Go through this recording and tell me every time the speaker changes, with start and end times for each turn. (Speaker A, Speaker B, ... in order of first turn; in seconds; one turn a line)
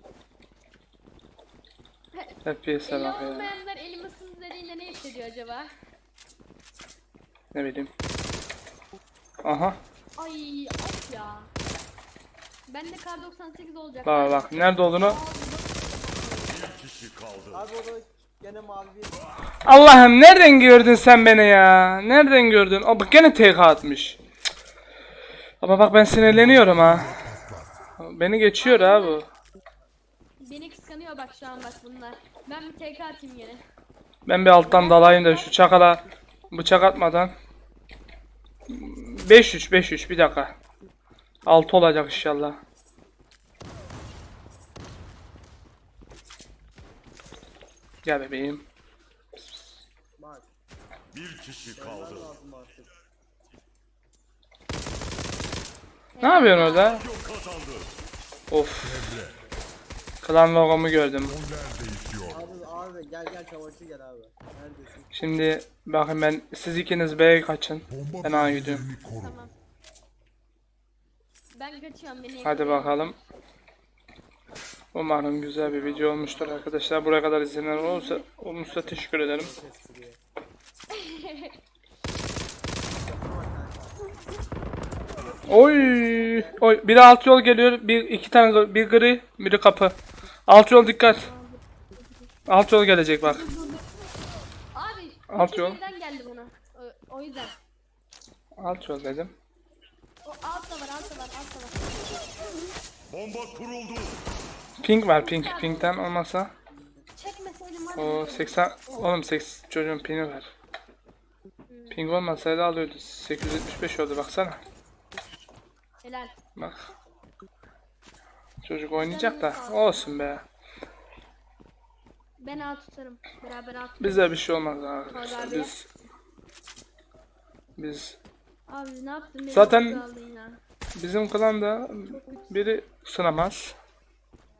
Speaker A: 2.1-5.7
Speaker B: 2.4-3.5
Speaker B: 7.5-7.9
Speaker B: 9.4-9.8
Speaker A: 10.2-11.5
Speaker A: 12.7-16.7
Speaker B: 14.0-15.2
Speaker C: 16.7-17.6
Speaker D: 17.5-19.3
Speaker B: 19.6-24.2
Speaker B: 25.6-27.1
Speaker E: 26.2-27.7
Speaker B: 28.0-29.3
Speaker A: 28.6-29.2
Speaker A: 30.4-33.6
Speaker B: 34.2-37.3
Speaker A: 34.6-35.5
Speaker B: 38.7-40.5
Speaker B: 41.5-42.6
Speaker B: 48.0-48.6
Speaker D: 50.2-50.5
Speaker C: 51.1-52.3
Speaker D: 51.7-52.9
Speaker A: 56.2-57.0
Speaker B: 56.2-57.1
Speaker C: 57.1-57.9
Speaker B: 58.5-59.1
Speaker E: 58.8-59.3
Speaker B: 60.2-61.4
Speaker E: 61.3-62.4
Speaker D: 62.3-65.1
Speaker B: 65.1-68.8
Speaker E: 67.9-69.3
Speaker A: 69.2-69.5
Speaker A: 71.5-73.1
Speaker B: 72.4-73.2
Speaker B: 74.9-79.5
Speaker D: 75.6-77.1
Speaker D: 78.6-80.2
Speaker A: 80.9-81.5
Speaker D: 82.9-84.0
Speaker D: 85.2-86.6
Speaker B: 85.5-91.2
Speaker A: 91.1-91.6
Speaker B: 92.5-93.5
Speaker A: 93.2-93.8
Speaker A: 94.7-97.5
Speaker B: 95.3-95.8
Speaker B: 98.6-99.3
Speaker A: 100.2-102.7
Speaker C: 103.1-104.1
Speaker B: 104.8-106.5
Speaker A: 105.2-106.0
Speaker A: 107.2-108.6
Speaker B: 108.0-110.5
Speaker A: 111.7-112.0
Speaker B: 111.9-114.6
Speaker A: 116.0-116.3
Speaker B: 116.5-116.9
Speaker B: 118.6-120.4
Speaker A: 119.0-120.1
Speaker A: 122.4-124.3
Speaker B: 124.0-125.8
Speaker A: 125.1-125.7
Speaker B: 127.8-128.2
Speaker A: 128.7-130.6
Speaker B: 129.5-130.0
Speaker B: 130.9-133.7
Speaker A: 132.1-132.8